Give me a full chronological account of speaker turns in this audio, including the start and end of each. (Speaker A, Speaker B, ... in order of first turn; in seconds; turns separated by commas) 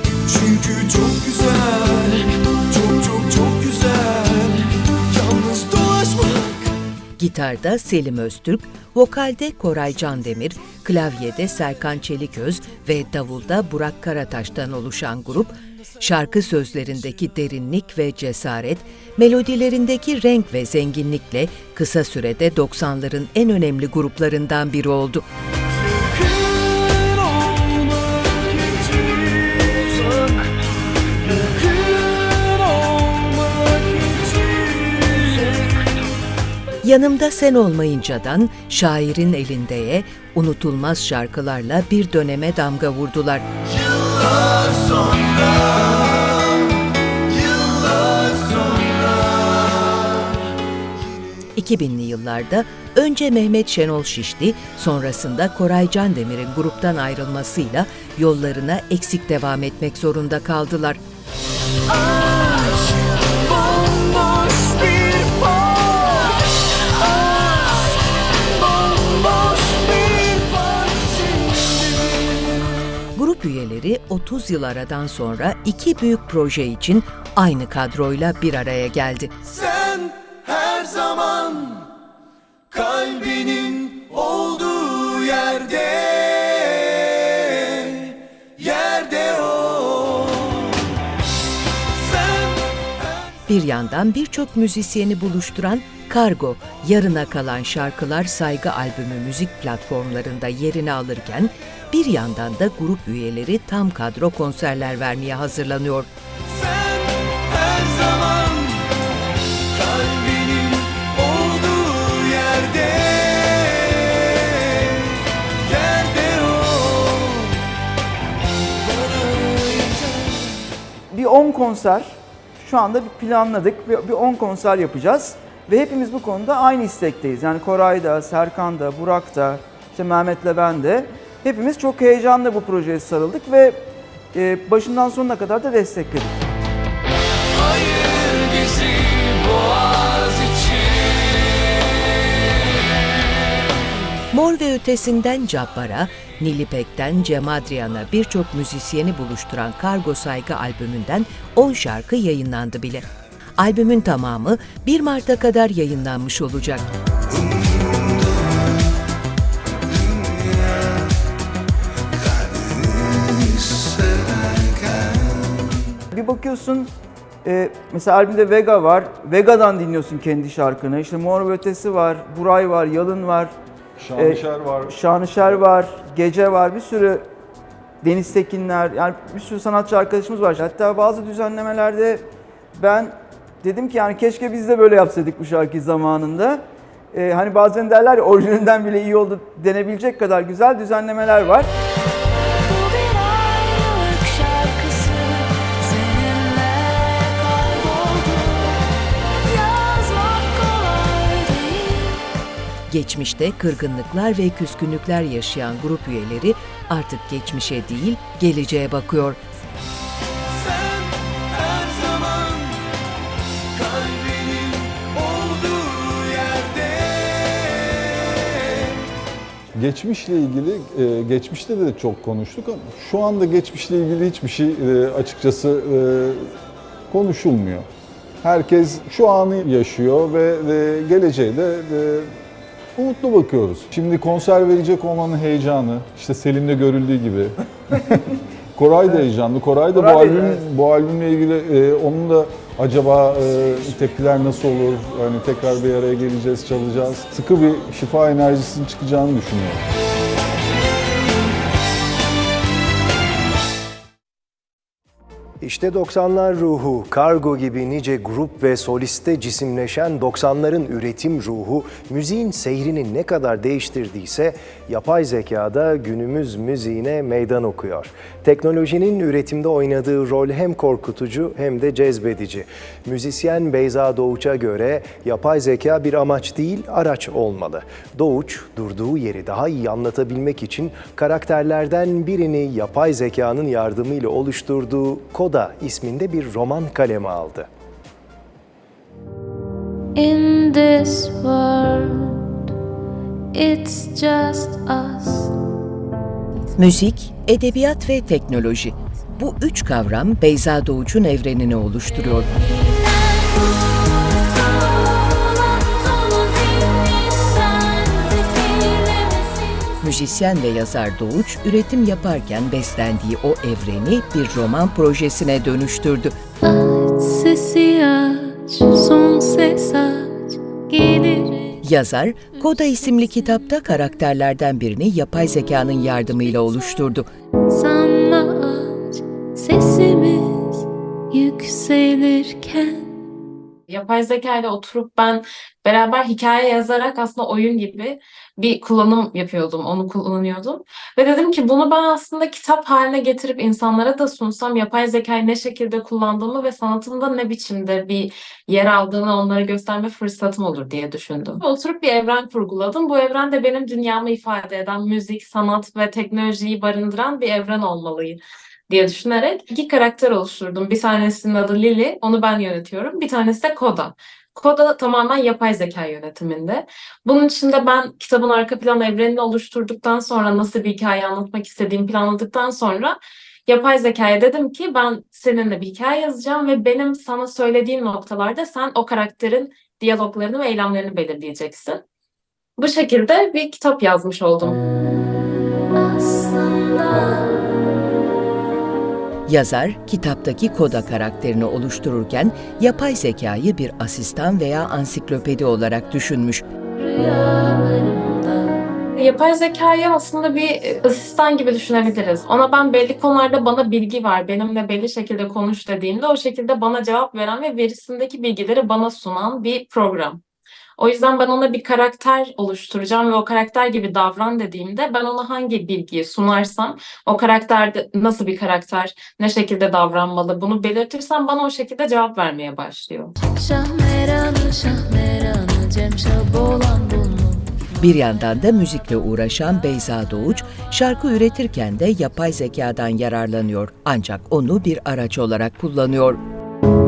Speaker A: 6.2-6.5, Speaker B: 7.2-25.2, Speaker C: 32.5-35.1, Speaker B: 36.8-43.5, Speaker A: 44.0-45.9, Speaker A: 47.3-49.9, Speaker B: 51.6-61.0, Speaker C: 62.4-62.8, Speaker C: 64.2-66.0, Speaker C: 69.5-70.5, Speaker C: 71.1-71.8, Speaker B: 73.1-79.3, Speaker C: 79.6-81.8, Speaker C: 82.7-90.6, Speaker B: 93.5-106.1, Speaker C: 107.3-108.7, Speaker C: 109.8-114.5, Speaker C: 115.7-117.5, Speaker C: 118.8-120.4, Speaker C: 121.1-133.8, Speaker C: 134.3-136.4, Speaker C: 138.5-139.1, Speaker B: 144.3-153.1, Speaker B: 153.6-156.9, Speaker C: 166.1-166.9, Speaker C: 167.4-173.5, Speaker D: 174.0-175.6, Speaker C: 174.2-177.2, Speaker C: 178.0-182.2, Speaker C: 182.8-191.7, Speaker E: 192.7-198.8, Speaker E: 199.4-202.3, Speaker B: 202.9-209.4, Speaker A: 211.3-212.3, Speaker A: 213.8-215.5, Speaker C: 214.8-218.7, Speaker D: 219.8-226.5, Speaker D: 227.1-227.8, Speaker D: 228.4-232.3, Speaker D: 232.9-238.2, Speaker D: 238.8-249.8, Speaker C: 240.0-240.6, Speaker F: 255.6-287.7, Speaker E: 290.1-292.5, Speaker E: 293.5-295.5, Speaker B: 296.8-302.5, Speaker E: 303.3-303.9, Speaker E: 304.7-310.0, Speaker B: 310.0-316.3, Speaker E: 316.6-321.8, Speaker B: 321.8-327.2, Speaker E: 327.7-333.2, Speaker G: 333.9-382.0, Speaker G: 382.8-384.8, Speaker E: 385.9-387.9, Speaker B: 389.4-396.6, Speaker E: 397.0-398.9, Speaker G: 399.1-410.4, Speaker G: 411.0-423.3, Speaker E: 423.5-427.7, Speaker B: 428.0-436.4